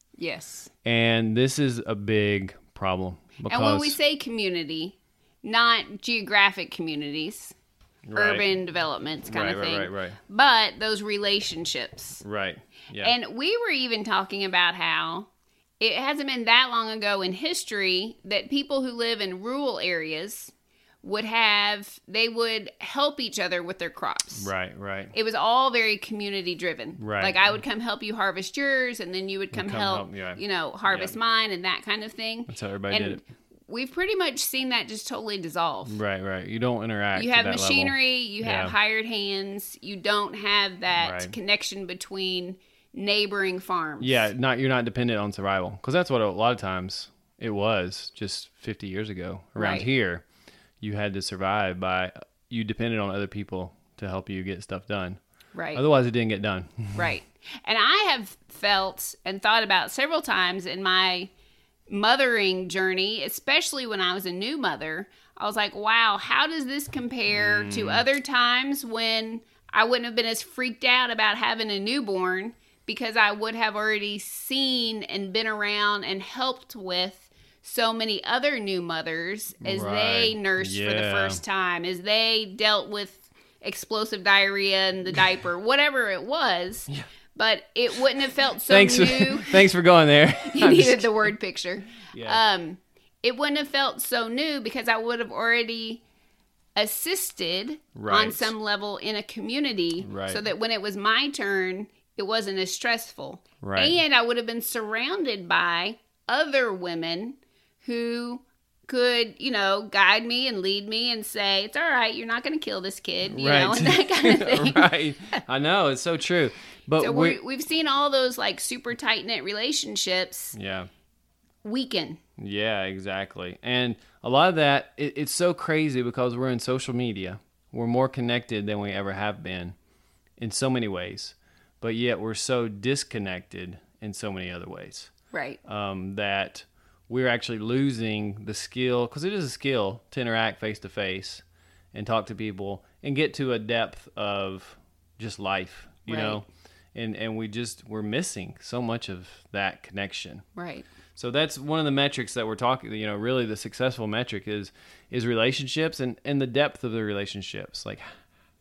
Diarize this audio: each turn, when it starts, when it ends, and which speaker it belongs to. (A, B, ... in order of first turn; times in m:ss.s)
0:00.2-0:00.7 A
0:00.8-0:04.0 B
0:03.5-0:07.6 A
0:08.1-0:08.5 B
0:08.1-0:12.2 A
0:09.3-0:10.2 B
0:12.2-0:13.2 B
0:13.0-0:24.5 A
0:24.4-0:25.1 B
0:25.1-0:36.0 A
0:27.0-0:27.5 B
0:29.5-0:31.2 B
0:32.5-0:33.2 B
0:35.9-0:38.8 B
0:37.2-0:44.3 A
0:40.9-0:41.4 B
0:44.0-0:50.2 B
0:49.6-0:49.9 A
0:50.8-0:55.2 B
0:55.5-0:55.8 A
0:55.7-0:57.2 B
0:57.0-1:01.3 A
1:01.9-1:29.7 A
1:07.3-1:08.1 B
1:19.6-1:21.4 B
1:28.7-1:31.3 B
1:30.4-1:36.0 A
1:32.1-1:32.4 B
1:36.8-1:55.4 A
1:38.0-1:38.5 B
1:40.0-1:40.4 B
1:43.6-1:44.0 B
1:53.3-1:57.4 B
1:57.0-2:00.6 A
2:00.5-2:00.9 B
2:01.6-2:02.2 A
2:02.4-2:09.8 B
2:10.4-2:15.1 B
2:15.3-2:15.6 A
2:15.7-2:21.4 B
2:21.9-2:30.4 B
2:26.1-2:26.4 A
2:30.6-2:30.9 A
2:31.2-2:38.1 B